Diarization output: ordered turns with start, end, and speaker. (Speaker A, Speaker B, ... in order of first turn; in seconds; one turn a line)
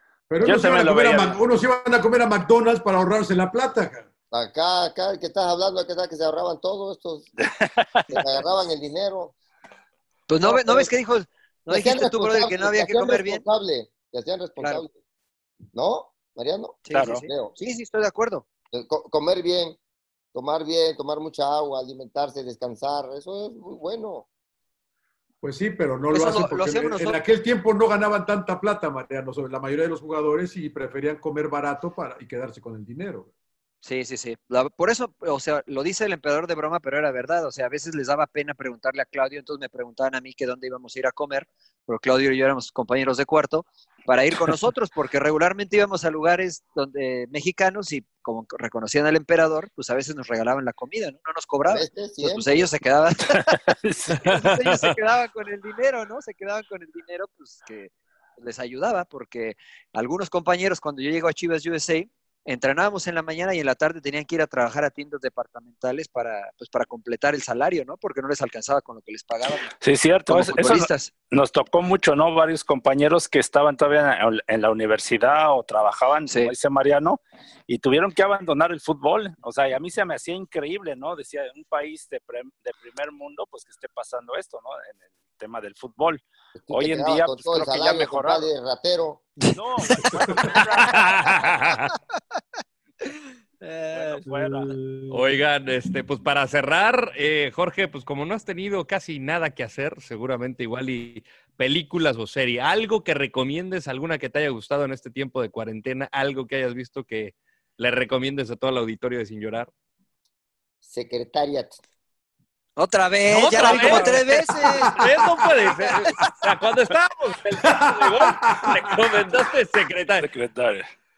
Speaker A: 0.3-4.1
Speaker B: 0.4-1.4
Speaker C: 4.3-7.3
Speaker B: 7.5-7.8
Speaker C: 8.1-9.3
Speaker D: 10.3-13.4
Speaker C: 10.4-10.9
Speaker C: 11.7-14.9
Speaker D: 14.6-14.8
Speaker C: 15.7-17.5
Speaker D: 16.9-18.4
Speaker B: 16.9-17.2
Speaker C: 18.7-19.8
Speaker C: 20.3-24.3
Speaker A: 25.4-33.3
Speaker D: 26.1-27.2
Speaker D: 33.8-53.5
Speaker C: 51.6-52.7
Speaker B: 53.5-54.4
Speaker D: 54.2-69.7
Speaker E: 54.2-54.5
Speaker B: 69.8-88.5
Speaker D: 70.3-71.1
Speaker C: 86.5-89.3
Speaker B: 89.5-91.5
Speaker D: 90.2-90.5
Speaker E: 90.9-91.9
Speaker D: 93.6-94.2
Speaker B: 93.9-94.8
Speaker A: 94.2-95.3
Speaker E: 95.1-109.7
Speaker C: 110.8-111.8
Speaker D: 112.8-114.9
Speaker E: 113.3-120.3
Speaker A: 113.8-114.1
Speaker A: 114.7-116.5
Speaker A: 117.6-119.4
Speaker B: 120.2-120.8